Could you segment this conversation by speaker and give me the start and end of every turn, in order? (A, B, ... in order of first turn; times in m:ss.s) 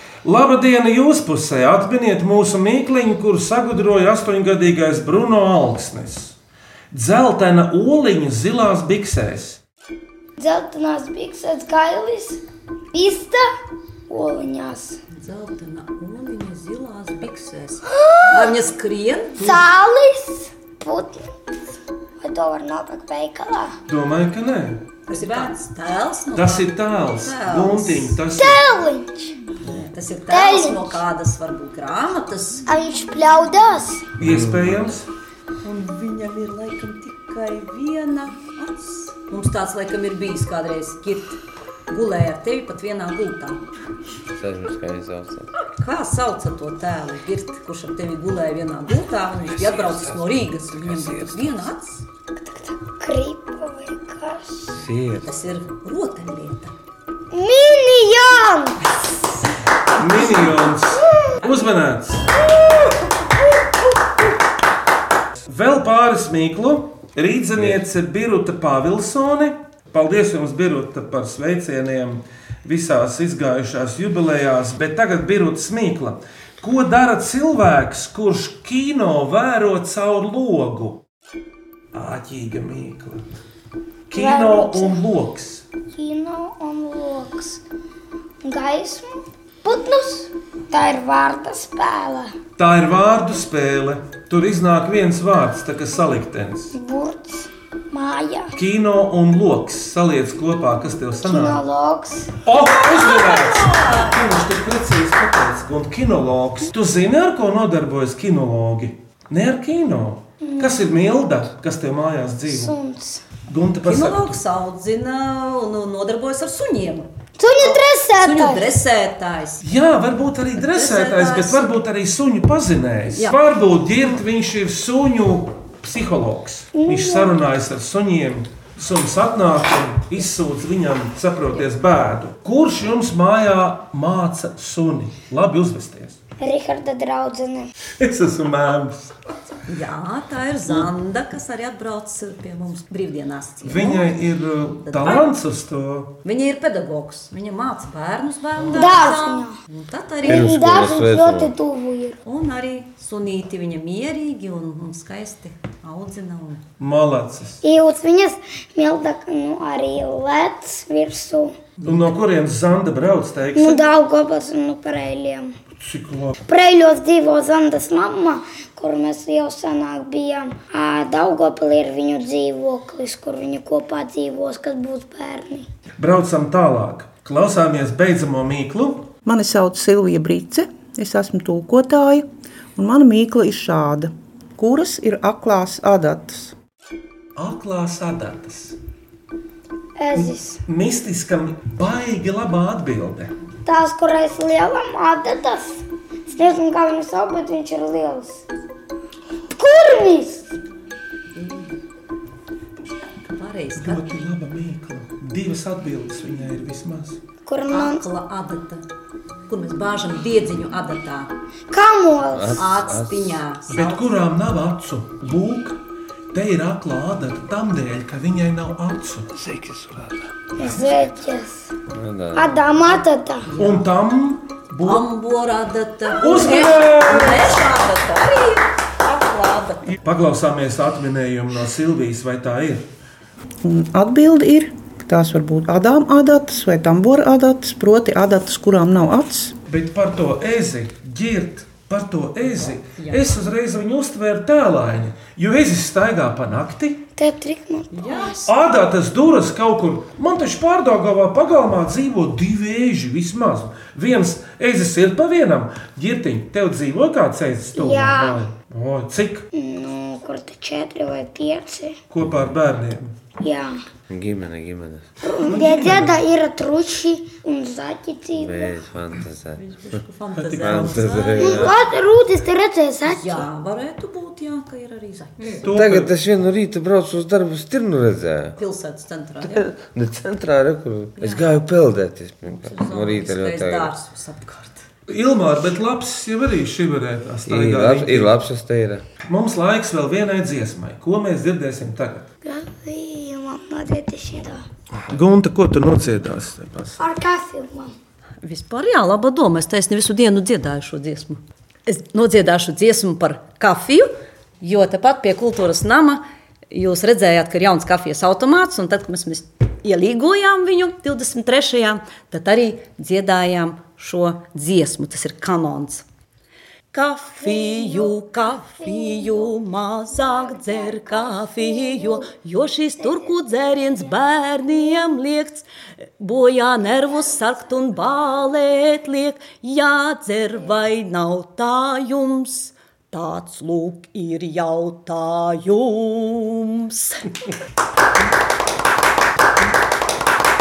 0:00.2-0:06.4 A
0:06.9-0:09.6 A
0:10.4-0:12.4 B
0:12.9-0:13.5 B
0:14.1-0:15.0 B
0:15.1-0:19.7 C
0:17.9-0:18.5 B
0:19.4-0:21.3 B
0:22.2-0:23.7 B
0:23.9-0:24.8 A
0:25.1-0:28.2 C
0:26.4-0:28.6 A
0:28.3-0:29.4 B
0:29.6-0:32.7 C
0:30.3-0:31.0 B
0:32.7-0:34.1 B
0:34.2-0:35.1 A
0:34.2-0:34.9 D
0:35.6-0:43.6 C
0:44.3-0:45.5 D
0:45.8-0:52.0 C
0:49.5-0:51.7 A
0:52.4-0:54.7 B
0:54.8-0:55.2 D
0:55.2-0:56.7 C
0:57.3-0:58.9 B
1:00.0-1:02.3 A
1:00.2-1:01.3 B
1:05.5-1:21.0 A
1:21.9-1:23.2 A
1:24.1-1:25.7 A
1:24.1-1:25.0 B
1:25.9-1:27.6 B
1:28.4-1:32.4 B
1:32.6-1:36.8 A
1:36.7-1:38.6 B
1:38.6-1:41.6 A
1:41.2-1:42.4 B
1:42.4-1:52.7 A
1:42.8-1:44.2 C
1:50.4-1:50.8 B
1:52.5-1:53.2 B
1:53.5-1:54.4 A
1:53.8-1:57.1 C
1:57.4-1:58.7 B
1:57.6-1:59.6 C
1:59.6-2:16.2 A
2:00.6-2:01.7 C
2:06.8-2:07.4 B
2:16.4-2:17.7 B
2:18.0-2:19.1 A
2:19.7-2:24.1 C
2:23.6-2:26.2 A
2:24.8-2:25.3 C
2:26.2-2:30.6 C
2:28.7-2:29.6 B
2:30.2-2:31.5 D
2:30.2-2:32.2 B
2:32.2-2:36.6 C
2:36.8-2:37.6 A
2:37.6-2:41.6 B
2:41.8-2:43.8 A
2:43.6-2:45.6 B
2:45.8-2:46.4 A
2:46.5-2:55.7 B
2:56.0-2:59.1 A
2:59.2-3:06.6 E
3:07.4-3:08.8 A
3:10.0-3:10.6 B
3:10.7-3:13.3 A
3:13.7-3:18.4 B
3:19.5-3:20.6 B
3:21.4-3:21.8 C
3:23.2-3:24.1 C
3:23.8-3:27.2 A
3:27.4-3:28.0 B
3:27.7-3:28.8 C
3:29.5-3:31.3 C
3:31.7-3:32.6 B
3:32.3-3:33.4 D
3:32.6-3:34.1 C
3:33.7-3:35.8 A
3:36.3-3:40.0 A
3:40.6-3:41.8 B
3:41.9-3:42.7 D
3:42.3-3:43.5 B
3:43.5-3:43.8 C
3:43.6-3:45.1 A
3:44.8-3:50.0 C
3:46.2-3:47.6 A
3:50.0-3:52.8 A
3:53.6-3:59.6 E
3:59.7-4:07.0 A
4:02.5-4:03.4 C
4:07.2-4:08.3 B
4:07.9-4:08.5 C
4:08.4-4:19.5 A
4:17.8-4:18.4 B
4:19.5-4:22.0 B
4:22.1-4:23.1 A
4:23.4-4:23.8 B
4:24.1-4:25.1 D
4:25.2-4:28.8 B
4:25.4-4:26.2 A
4:28.4-4:29.6 D
4:29.6-4:31.8 C
4:30.4-4:31.0 A
4:30.6-4:31.8 D
4:31.4-4:33.5 B
4:33.1-4:35.6 C
4:35.6-4:36.1 A
4:35.6-4:38.6 D
4:38.6-4:39.7 C
4:39.4-4:43.9 D
4:41.2-4:41.6 C
4:42.5-4:44.9 C
4:45.1-4:48.4 A
4:47.5-4:49.0 D
4:49.3-4:52.3 A
4:52.4-4:54.6 B
4:55.1-4:57.0 A
4:57.0-4:58.0 B
4:58.4-5:04.1 C
5:04.6-5:16.0 C
5:16.9-5:37.3 C